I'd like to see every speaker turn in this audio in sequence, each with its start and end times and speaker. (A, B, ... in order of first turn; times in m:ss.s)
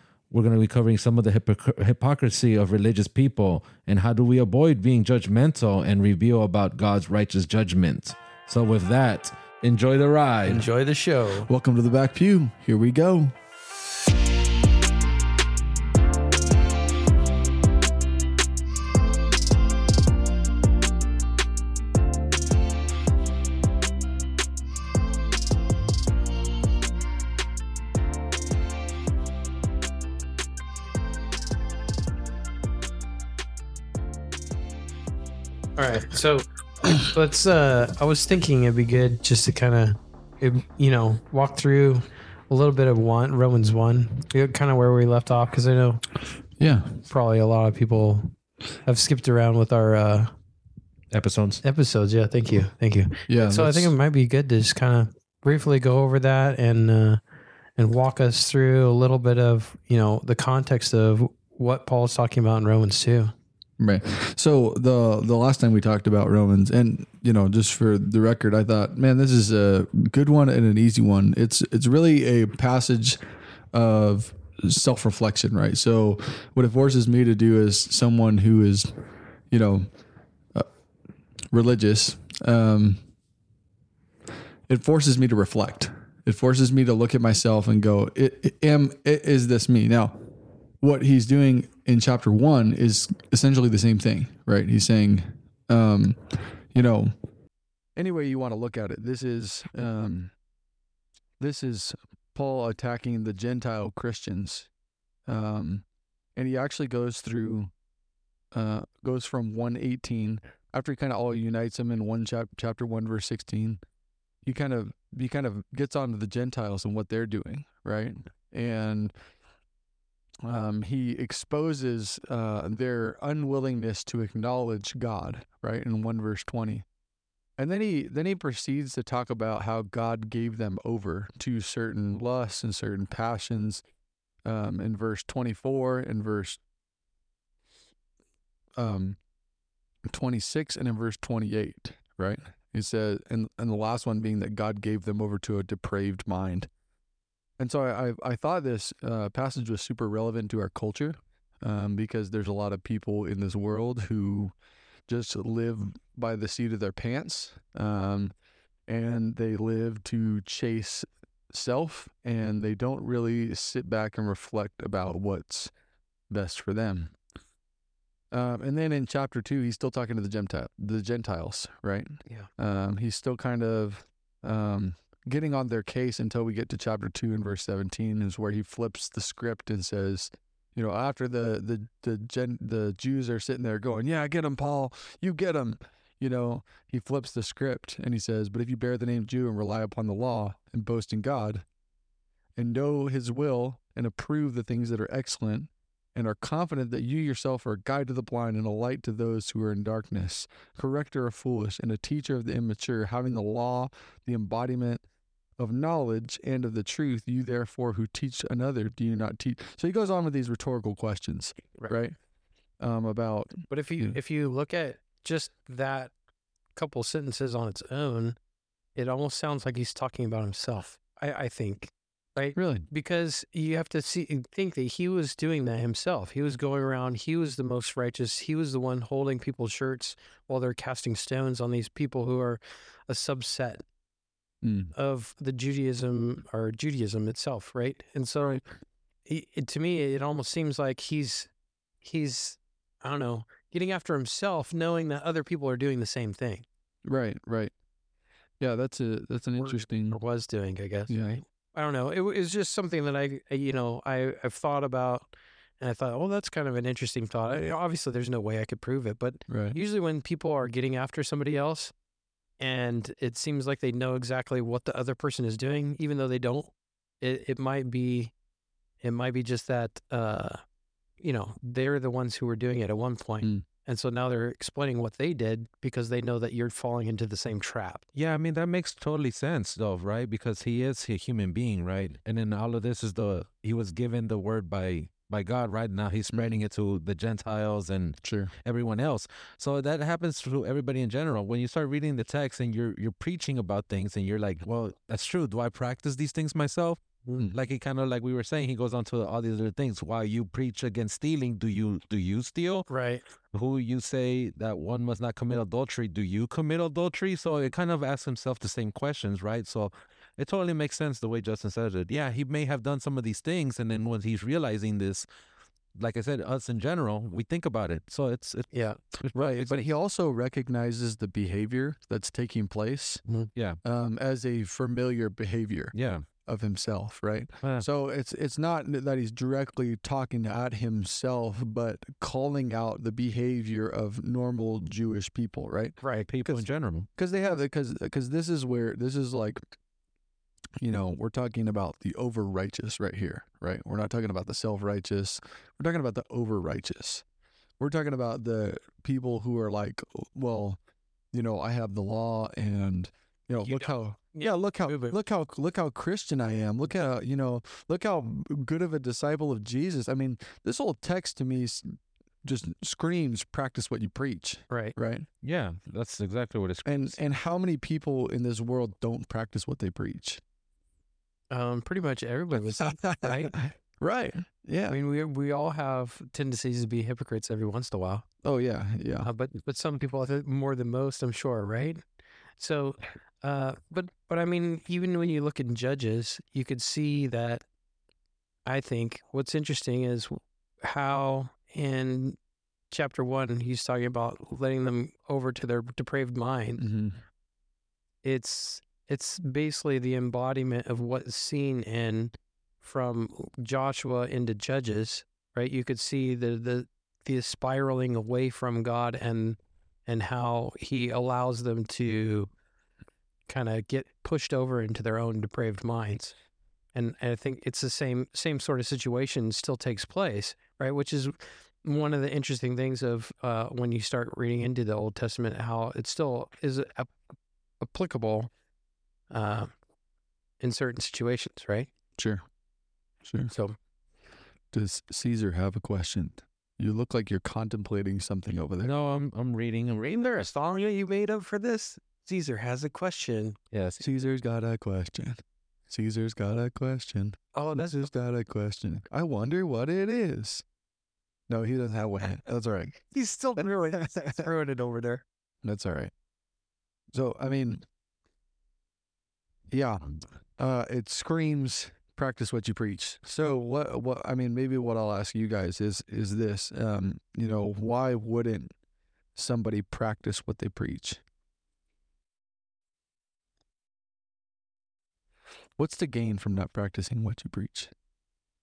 0:00.3-0:10.6 A
0:10.4-0:11.5 B
0:11.4-0:13.3 C
0:35.8-0:36.4 B
0:37.0-0:46.0 B
0:46.6-0:47.0 C
0:47.1-0:48.3 B
0:48.8-0:50.3 B
0:51.1-0:51.6 A
0:51.6-0:57.2 B
0:53.3-0:53.9 C
0:57.8-1:03.3 B
1:03.8-1:13.2 C
1:13.7-1:18.9 C
1:19.5-1:19.9 C
1:21.5-1:23.0 C
1:24.7-1:30.2 C
1:30.8-1:37.1 C
1:38.0-1:40.3 C
1:41.4-1:44.7 C
1:45.3-1:45.8 C
1:46.4-1:47.7 C
1:48.5-1:53.8 C
1:54.4-1:59.1 C
2:00.4-2:06.8 C
2:07.6-2:13.8 C
2:14.4-2:16.6 C
2:18.8-2:19.2 C
2:20.1-2:26.7 C
2:27.6-2:34.5 C
2:35.1-2:38.3 C
2:38.9-2:45.7 C
2:46.3-2:47.1 C
2:48.3-3:11.6 C
3:12.6-3:25.0 C
3:25.6-3:32.2 C
3:32.8-3:34.2 C
3:33.7-3:36.1 B
3:36.8-3:38.4 B
3:39.0-3:53.8 B
3:42.6-3:42.9 C
3:54.6-3:54.9 C
3:54.9-3:58.6 B
3:59.2-4:01.5 B
4:02.0-4:06.6 B
4:07.0-4:07.7 C
4:08.6-4:10.2 C
4:09.6-4:11.2 B
4:11.1-4:11.4 C
4:11.7-4:21.9 B
4:19.5-4:19.8 C
4:22.6-4:28.3 B
4:29.0-4:30.6 B
4:31.2-4:38.0 B
4:38.2-5:02.9 A
4:46.3-4:46.6 C
4:48.2-4:48.5 C
5:02.9-5:03.2 B
5:03.5-5:15.3 A
5:16.0-5:19.8 A
5:18.7-5:19.0 B
5:19.3-5:23.2 C
5:23.8-5:25.9 C
5:25.9-5:26.2 A
5:26.4-5:36.0 C
5:36.0-5:36.3 B
5:36.3-5:37.1 A
5:37.2-5:39.6 C
5:40.8-5:47.2 C
5:47.8-5:50.8 C
5:51.3-6:05.2 C
5:53.6-5:55.2 B
6:04.7-6:05.0 B
6:05.4-6:07.2 A
6:06.8-6:10.4 C
6:11.5-6:13.6 B
6:12.8-6:15.0 C
6:14.9-6:18.2 B
6:18.4-6:19.3 C
6:19.2-6:22.0 B
6:22.6-6:27.6 B
6:28.6-6:32.4 B
6:32.9-6:36.8 B
6:36.8-6:37.2 C
6:38.2-6:52.5 B
6:53.5-6:56.3 B
6:56.9-7:07.1 B
7:07.8-7:08.5 B
7:09.3-7:09.7 B
7:10.6-7:11.9 B
7:12.2-7:12.4 C
7:13.2-7:13.5 C
7:13.5-7:13.8 B
7:14.7-7:18.9 C
7:18.8-7:20.5 A
7:20.3-7:23.6 B
7:23.7-7:24.0 A
7:24.0-7:30.6 C
7:27.5-7:28.1 B
7:31.5-7:33.0 C
7:33.1-7:35.2 B
7:33.6-7:34.5 C
7:35.6-7:36.1 C
7:37.1-7:37.8 C
7:39.7-7:48.7 C
7:49.4-7:51.2 C
7:55.8-7:57.9 C